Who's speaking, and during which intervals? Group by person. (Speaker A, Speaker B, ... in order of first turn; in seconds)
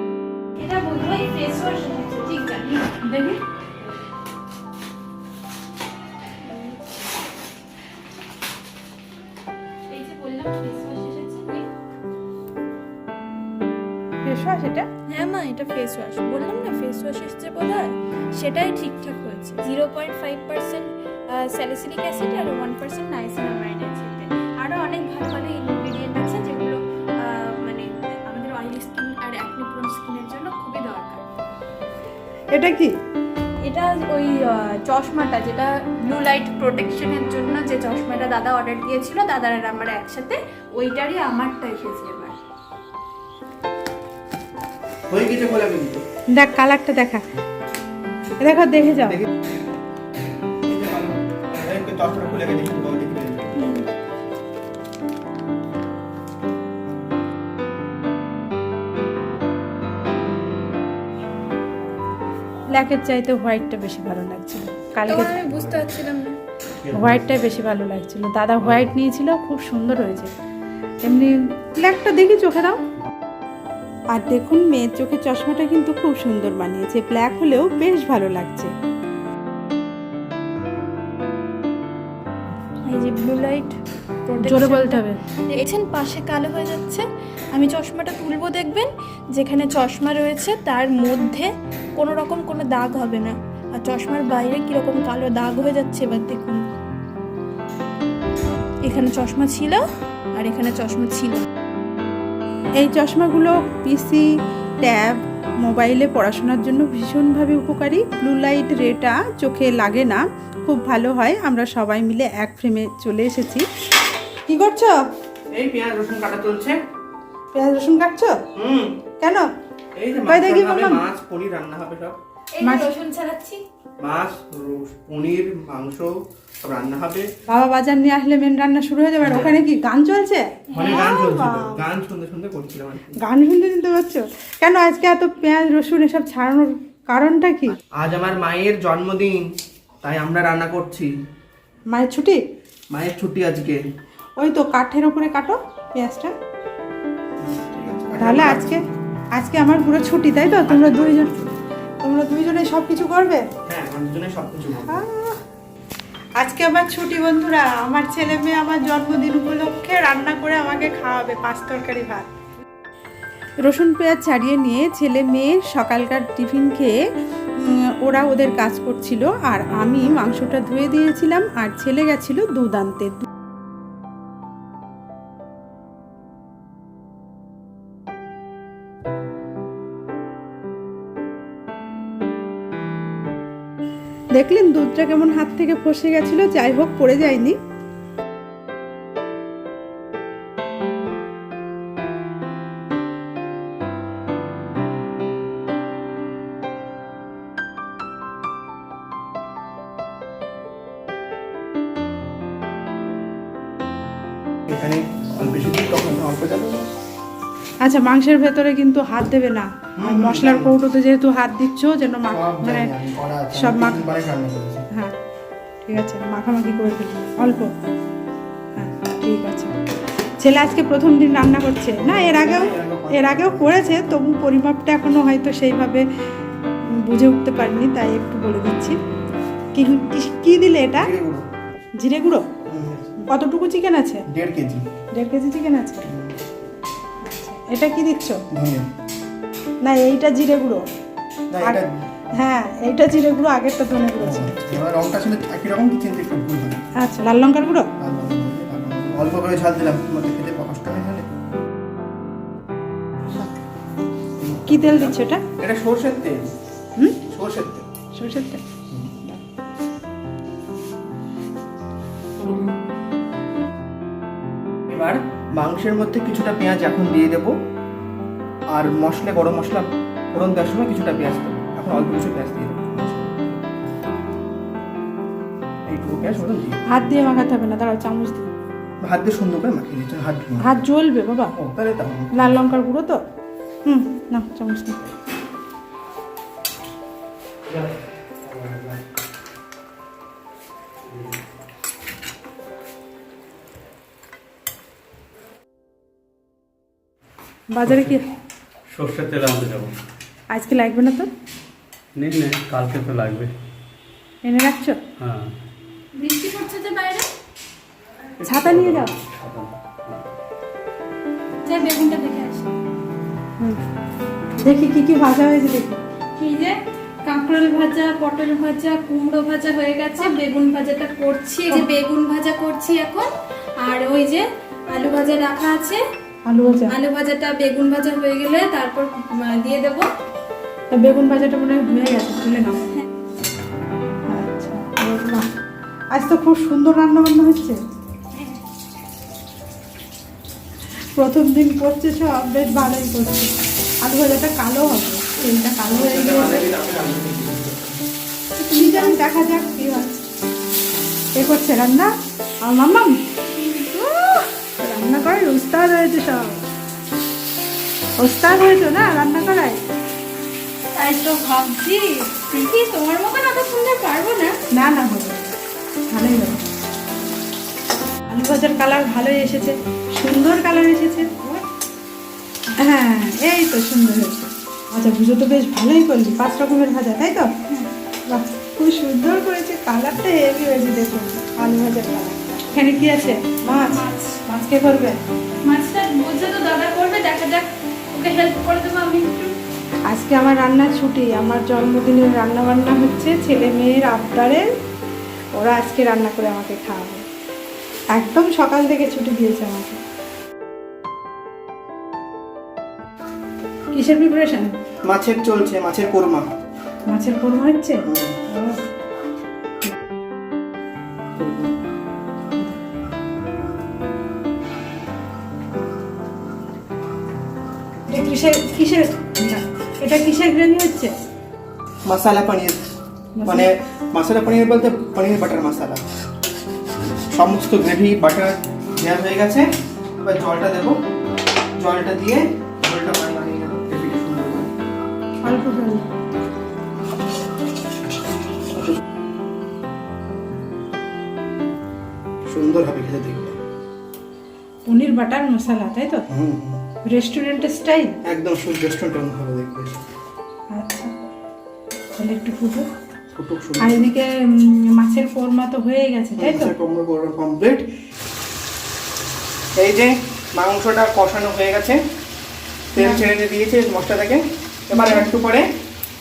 Speaker A: 0.6-3.0, 6.5-6.8, 9.9-11.7, 15.1-31.3, 33.6-42.4, 65.1-66.4, 82.8-96.6, 98.8-99.8, 100.4-101.5, 122.5-123.6, 306.1-307.3, 311.6-312.7, 316.4-323.3, 323.8-326.0, 326.9-330.1, 360.9-364.6, 385.6-389.6
Speaker B: 2.9-3.4, 14.2-14.9, 32.5-32.9, 46.3-47.2, 48.4-49.2, 62.7-65.3, 66.9-70.3, 71.0-72.8, 74.1-78.7, 84.4-85.2, 102.8-104.3, 104.8-113.7, 114.5-115.0, 117.5-118.4, 120.2-121.0, 122.6-122.9, 127.5-131.8, 133.2-137.8, 141.9-142.4, 144.4-146.3, 148.2-148.8, 149.3-151.3, 152.0-153.4, 154.8-155.4, 156.4-162.3, 163.6-167.0, 167.6-173.3, 184.4-187.6, 207.8-212.9, 213.5-214.0, 215.8-217.7, 218.8-219.7, 220.4-226.0, 227.0-229.0, 229.7-231.1, 232.0-232.4, 233.3-234.2, 235.1-236.1, 237.2-238.4, 239.8-240.8, 242.3-244.8, 247.0-247.9, 254.7-255.4, 258.2-258.6, 276.9-278.5, 280.6-281.5, 282.3-283.2, 283.9-285.0, 297.7-298.2, 300.5-301.3, 304.4-305.0, 308.4-309.1, 314.6-316.0, 326.5-326.9, 330.9-332.9, 334.3-335.5, 336.1-337.8, 341.2-343.5, 344.0-346.7, 348.6-350.2, 351.4-352.1, 352.6-356.6, 358.2-359.8, 364.7-365.5, 366.1-366.6, 368.3-371.6, 372.8-377.5, 378.3-385.2, 390.1-394.7, 395.6-397.2, 398.1-400.0, 403.9-404.7, 407.1-408.8, 418.1-421.1, 423.4-423.7, 435.4-436.1, 444.9-446.2, 447.1-448.1, 450.7-451.1, 452.2-452.9, 453.8-456.7, 463.0-463.2, 464.9-465.3
Speaker C: 45.1-46.0, 50.6-53.8, 115.5-116.8, 118.5-119.0, 120.0-122.2, 124.0-127.3, 129.2-129.6, 130.7-133.2, 137.9-139.5, 140.0-141.1, 142.9-143.8, 147.4-148.8, 150.7-151.6, 153.7-155.0, 204.7-206.9, 210.0-210.8, 212.3-214.8, 222.0-224.0, 230.9-231.5, 232.7-233.2, 234.3-234.9, 236.1-236.4, 238.5-238.9, 241.5-241.9, 244.2-246.8, 248.0-251.3, 254.4-256.5, 257.3-257.9, 258.9-259.2, 262.4-262.7, 264.9-267.5, 268.7-273.6, 275.9-276.8, 279.0-280.8, 281.6-282.6, 345.9-348.0, 405.1-406.5, 408.0-408.4, 411.4-411.7, 422.1-422.8, 423.4-426.0, 427.3-429.7, 430.2-431.0, 431.8-434.7, 442.4-443.6, 446.3-446.8, 448.2-450.0, 453.3-454.1, 456.4-457.9, 459.8-462.0, 462.9-465.7
Speaker D: 66.8-67.2, 288.4-289.0, 291.1-291.4, 297.9-298.1, 298.9-300.0, 302.2-303.6, 305.2-305.5, 308.5-310.2